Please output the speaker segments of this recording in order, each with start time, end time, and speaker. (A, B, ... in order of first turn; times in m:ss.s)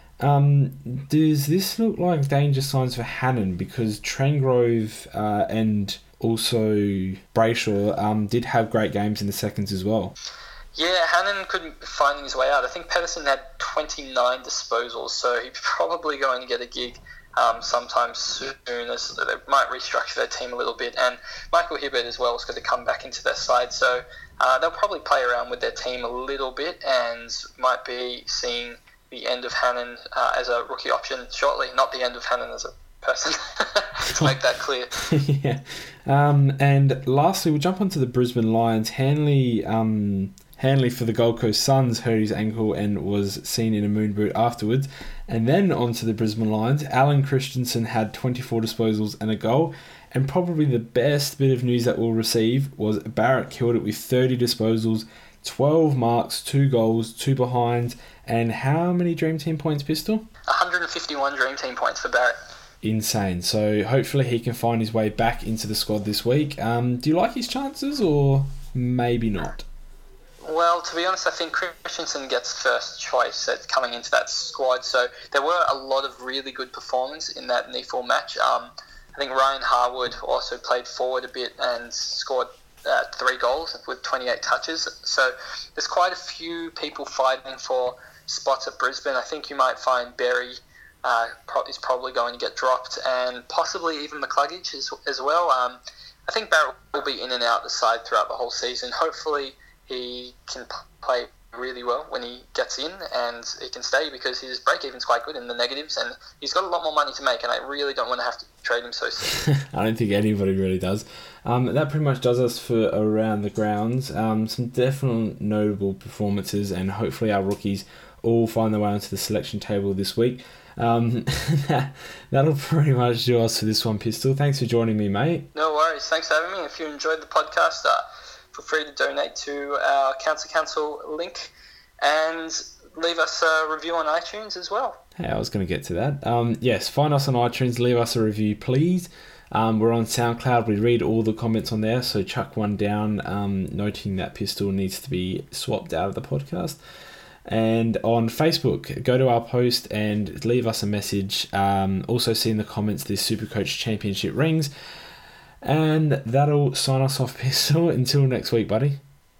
0:00.2-0:10.2 A
0:10.8-0:34.9 B
0:34.1-0:34.4 A
0:34.9-1:00.3 A
1:00.5-1:02.4 B
1:02.8-1:09.6 A
1:10.4-1:49.3 B
1:49.4-2:05.5 A
2:05.5-2:15.0 B
2:15.2-2:26.8 A
2:27.5-2:34.7 A
2:35.6-2:39.0 A